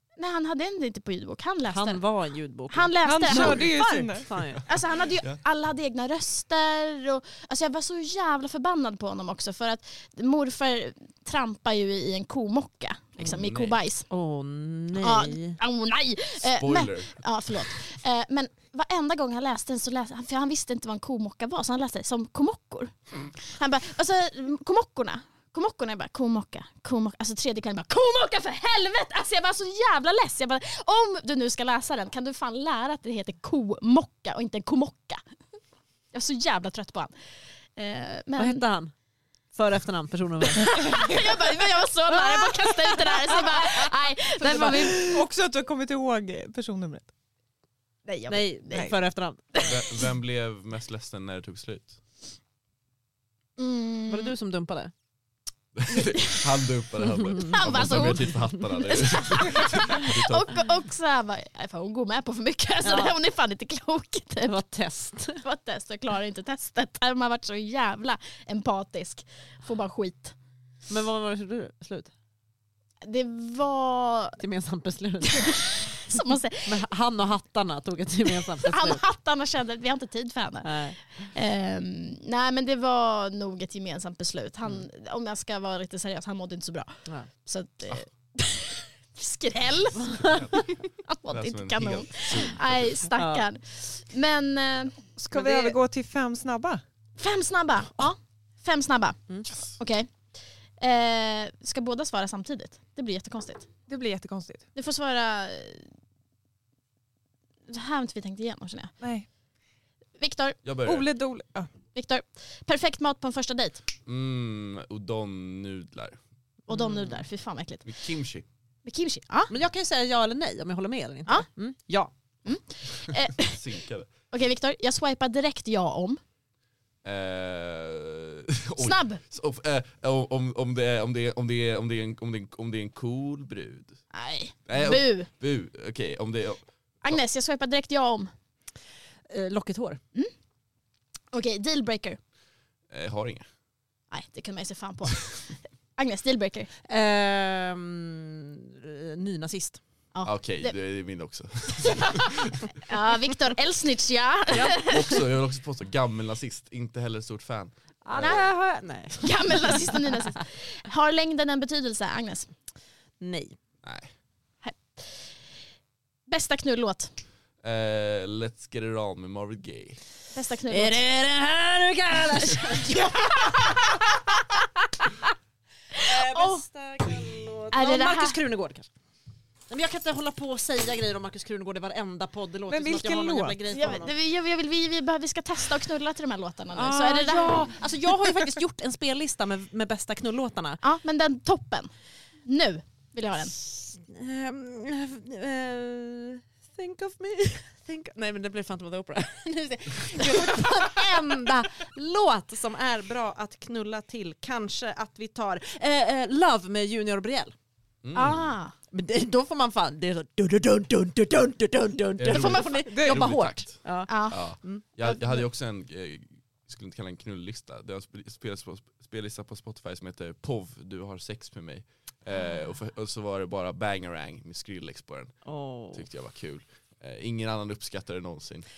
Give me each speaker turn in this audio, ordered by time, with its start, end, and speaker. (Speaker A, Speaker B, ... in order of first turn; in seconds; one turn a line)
Speaker A: 0.2-2.0
Speaker B: 1.7-4.6
Speaker A: 2.7-3.7
Speaker C: 3.0-4.3
Speaker D: 3.3-3.6
Speaker A: 4.6-14.1
Speaker D: 13.2-13.8
Speaker B: 14.1-15.6
Speaker A: 14.9-35.2
Speaker D: 16.4-17.2
Speaker A: 36.1-37.1
Speaker A: 37.8-38.6
Speaker B: 38.4-38.9
Speaker B: 39.5-41.1
Speaker A: 40.7-45.2
Speaker C: 40.8-41.2
Speaker B: 42.2-43.3
Speaker C: 44.4-47.1
Speaker B: 44.6-44.9
Speaker A: 48.0-48.9
Speaker B: 48.3-49.4
Speaker D: 49.6-52.0
Speaker A: 53.6-54.3
Speaker B: 54.1-54.9
Speaker D: 55.7-60.6
Speaker A: 55.9-56.4
Speaker A: 57.4-64.6
Speaker B: 57.7-58.4
Speaker B: 62.8-63.1
Speaker B: 64.5-65.4
Speaker A: 65.4-70.3
Speaker B: 70.9-72.1
Speaker A: 73.0-74.4
Speaker B: 74.4-75.7
Speaker A: 75.3-76.7
Speaker B: 76.6-79.0
Speaker A: 78.6-95.7
Speaker B: 80.6-81.2
Speaker B: 90.0-90.5
Speaker D: 90.2-90.7
Speaker D: 91.3-93.1
Speaker B: 93.2-93.4
Speaker C: 95.2-96.8
Speaker A: 97.2-100.1
Speaker A: 100.8-103.7
Speaker C: 103.9-104.7
Speaker A: 104.7-105.9
Speaker A: 107.7-108.9
Speaker C: 109.0-109.2
Speaker A: 110.2-110.6
Speaker D: 110.6-111.1
Speaker C: 110.8-111.7
Speaker A: 111.9-113.8
Speaker D: 114.0-116.2
Speaker A: 116.7-117.9
Speaker B: 116.7-117.2
Speaker D: 117.8-118.5
Speaker A: 118.8-119.5
Speaker B: 119.5-122.1
Speaker A: 122.4-123.6
Speaker D: 123.1-124.1
Speaker A: 124.3-126.2
Speaker D: 127.0-134.0
Speaker A: 128.8-129.2
Speaker A: 134.1-135.3
Speaker D: 134.7-137.2
Speaker A: 137.0-138.3
Speaker B: 139.3-140.0
Speaker A: 141.3-142.2
Speaker D: 142.9-143.5
Speaker A: 144.1-146.7
Speaker B: 146.9-149.8
Speaker A: 150.1-150.8
Speaker D: 150.2-152.7
Speaker A: 151.8-155.2
Speaker D: 154.5-158.5
Speaker B: 154.5-154.8
Speaker B: 158.0-160.2
Speaker A: 159.2-162.5
Speaker B: 163.2-163.6
Speaker D: 163.8-164.1
Speaker A: 164.6-165.3
Speaker A: 166.3-167.1
Speaker D: 167.6-170.0
Speaker A: 170.3-171.0
Speaker B: 170.7-174.0
Speaker A: 172.8-174.4
Speaker A: 175.9-176.6
Speaker B: 176.0-178.8
Speaker A: 177.7-178.4
Speaker B: 179.7-184.1
Speaker C: 182.7-183.6
Speaker A: 183.7-187.7
Speaker B: 186.7-190.8
Speaker A: 190.8-191.9
Speaker A: 192.4-193.5
Speaker B: 193.6-207.5
Speaker D: 208.0-208.5
Speaker A: 208.1-208.7
Speaker B: 208.9-214.9
Speaker D: 212.2-225.4
Speaker C: 212.9-213.3
Speaker A: 214.1-214.4
Speaker B: 225.4-226.1
Speaker D: 225.9-228.7